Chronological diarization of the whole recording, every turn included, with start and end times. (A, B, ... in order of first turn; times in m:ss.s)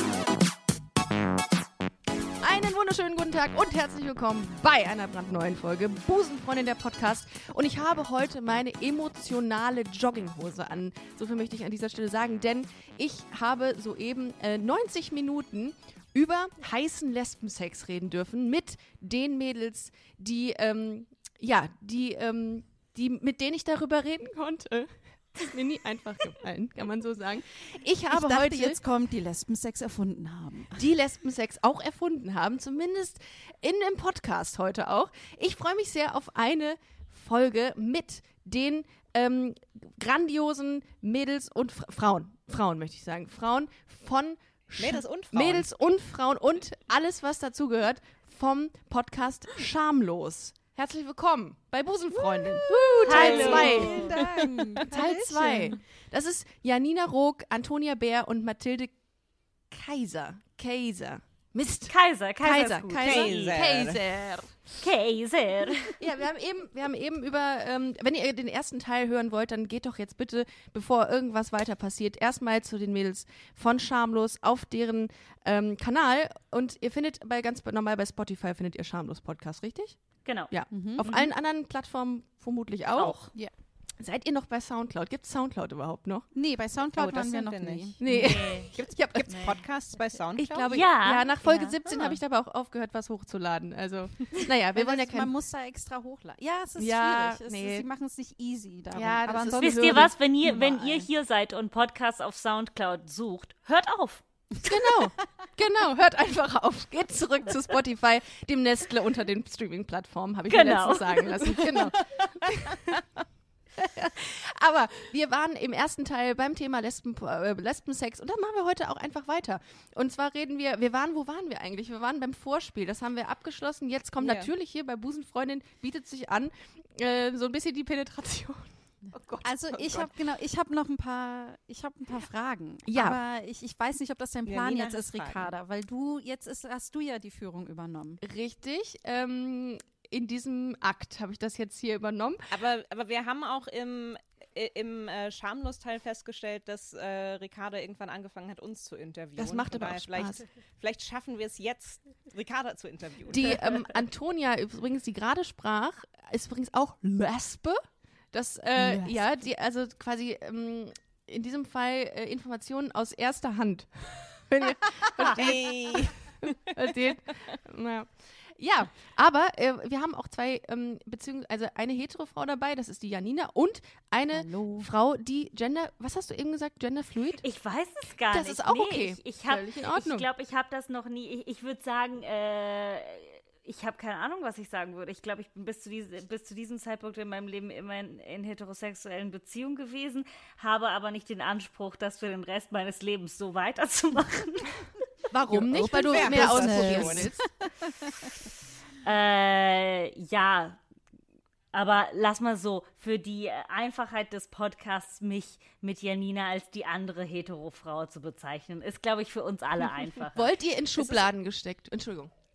0:02.4-0:28.8 A
0:28.1-0:30.9 B
0:30.8-0:54.2 A
0:44.8-0:45.7 C
0:52.2-0:55.1 C
0:53.0-0:54.1 D
0:53.2-0:55.7 B
0:54.8-0:59.0 A
0:59.7-1:04.6 A
1:01.9-1:03.6 D
1:03.0-1:04.0 C
1:04.8-1:06.0 D
1:05.9-1:23.3 A
1:20.2-1:21.3 D
1:20.7-1:21.0 B
1:23.0-1:23.3 D
1:24.0-1:26.3 A
1:26.3-1:28.2 B
1:27.0-1:30.7 C
1:28.0-1:29.5 A
1:28.0-1:30.0 D
1:30.4-1:35.3 A
1:30.7-1:31.4 D
1:31.4-1:31.8 B
1:34.8-1:41.0 B
1:36.8-1:37.9 A
1:38.9-1:40.8 A
1:39.6-1:44.2 D
1:44.6-1:53.0 A
1:50.5-1:51.9 D
1:53.8-2:10.1 A
2:04.2-2:04.5 C
2:09.4-2:18.2 B
2:12.9-2:13.2 A
2:14.5-2:15.5 C
2:18.2-2:22.5 A
2:22.5-2:33.6 C
2:29.4-2:30.4 A
2:33.3-2:37.8 A
2:38.3-2:57.4 A
2:38.8-2:39.2 C
2:45.2-2:46.6 C
2:54.3-2:54.9 B
2:57.4-3:14.9 D
2:58.3-3:00.3 A
3:15.3-3:17.4 A
3:15.5-3:17.3 C
3:16.2-3:17.5 B
3:19.0-3:20.8 D
3:21.7-3:30.5 D
3:30.3-3:32.3 A
3:31.0-3:31.3 C